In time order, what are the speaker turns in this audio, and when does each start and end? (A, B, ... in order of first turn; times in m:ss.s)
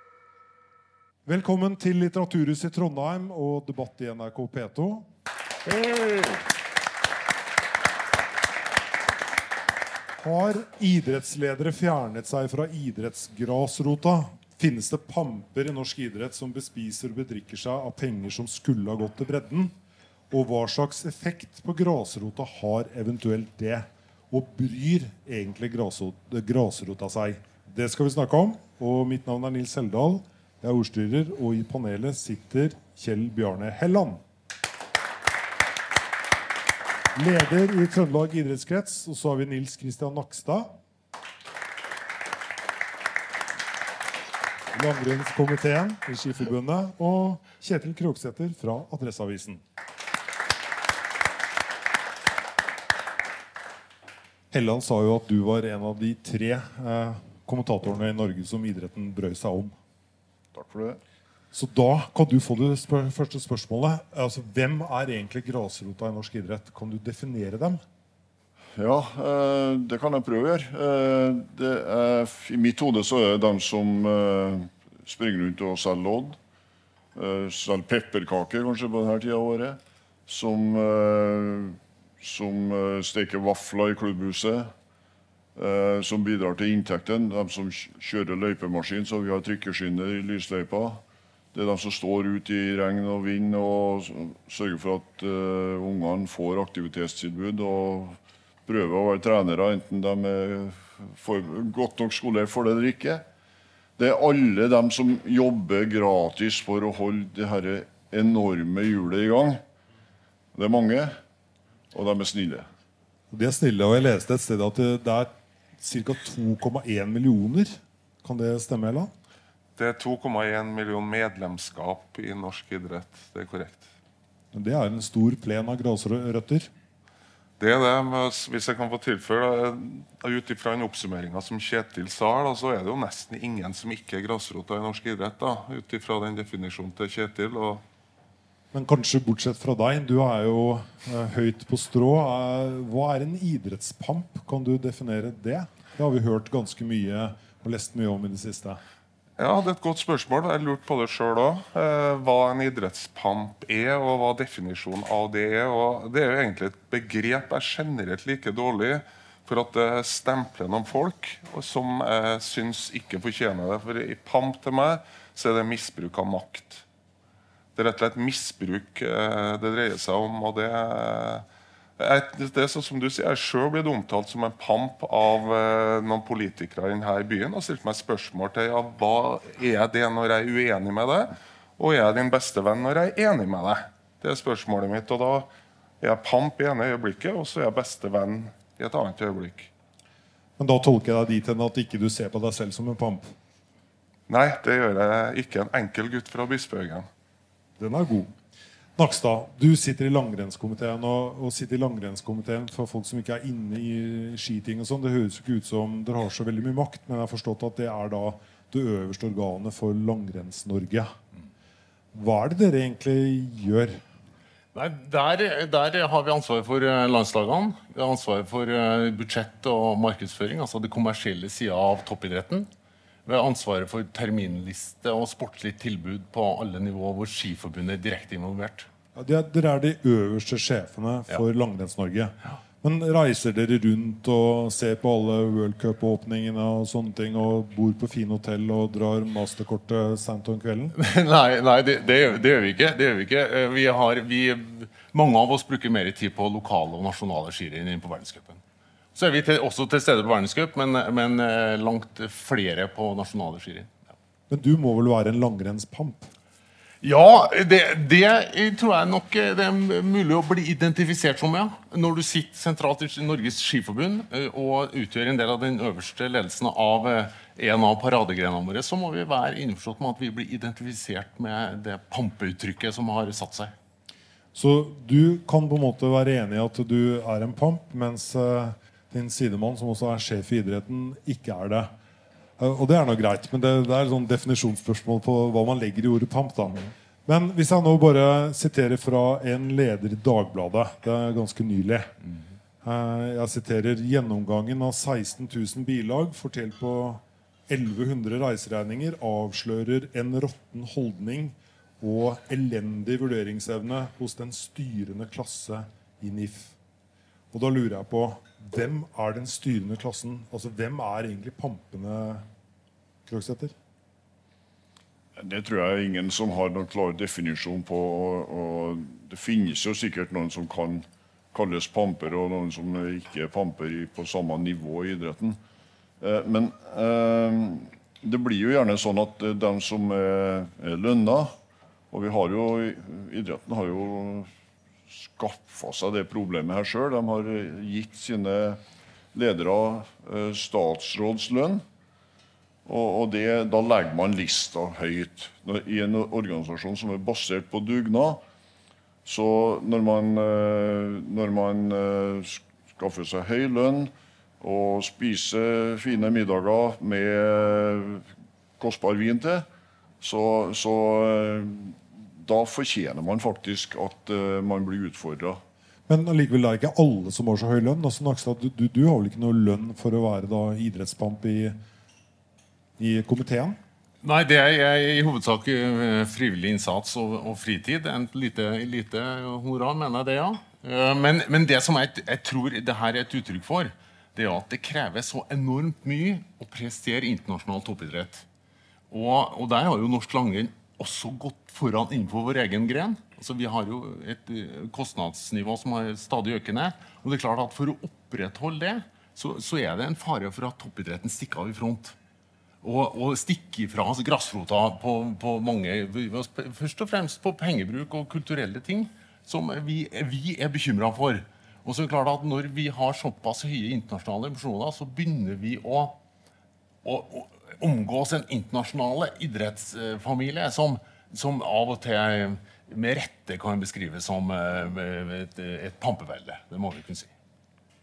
0:01.2-0:05.1 A
0:10.2-0:19.8 A
0:20.3-0:34.2 A
0:37.2-0:40.7 A
0:44.7-0:49.6 A
0:54.5-0:59.8 A
1:00.5-1:01.0 B
1:01.5-1:07.8 A
1:08.8-1:16.4 B
1:17.2-1:24.7 B
1:25.6-1:31.0 B
1:31.5-1:43.2 B
1:44.0-1:49.6 B
1:50.6-1:51.1 B
1:51.9-1:52.7 B
1:53.3-1:59.1 A
1:59.8-2:03.9 C
2:04.5-2:06.7 A
2:07.6-2:17.8 C
2:18.7-2:28.8 A
2:29.4-2:46.8 C
2:47.8-2:51.4 C
2:52.0-3:05.5 C
3:06.0-3:09.7 C
3:10.6-3:13.3 A
3:14.3-3:17.1 C
3:17.8-3:18.3 A
3:19.0-3:31.1 A
3:32.1-3:34.0 A
3:34.7-3:42.7 D
3:43.3-3:48.9 D
3:49.2-4:01.0 A
4:01.0-4:08.6 D
4:09.2-4:13.9 D
4:14.5-4:16.3 A
4:17.0-4:33.7 D
4:34.6-4:41.9 A
4:42.6-4:52.1 A
4:52.8-5:06.7 A
5:07.5-5:12.4 A
5:13.3-5:13.7 A
5:15.4-5:25.6 B
5:26.2-5:31.5 B
5:32.1-5:34.5 B
5:35.1-5:38.8 B
5:39.3-5:41.8 B
5:42.9-5:48.4 B
5:49.2-5:58.3 B
5:58.8-5:59.7 B
6:00.2-6:05.6 B
6:06.1-6:11.8 A
6:13.0-6:13.8 A
6:14.2-6:28.5 D
6:29.1-6:42.2 D
6:42.8-6:56.2 D
6:57.0-7:07.3 D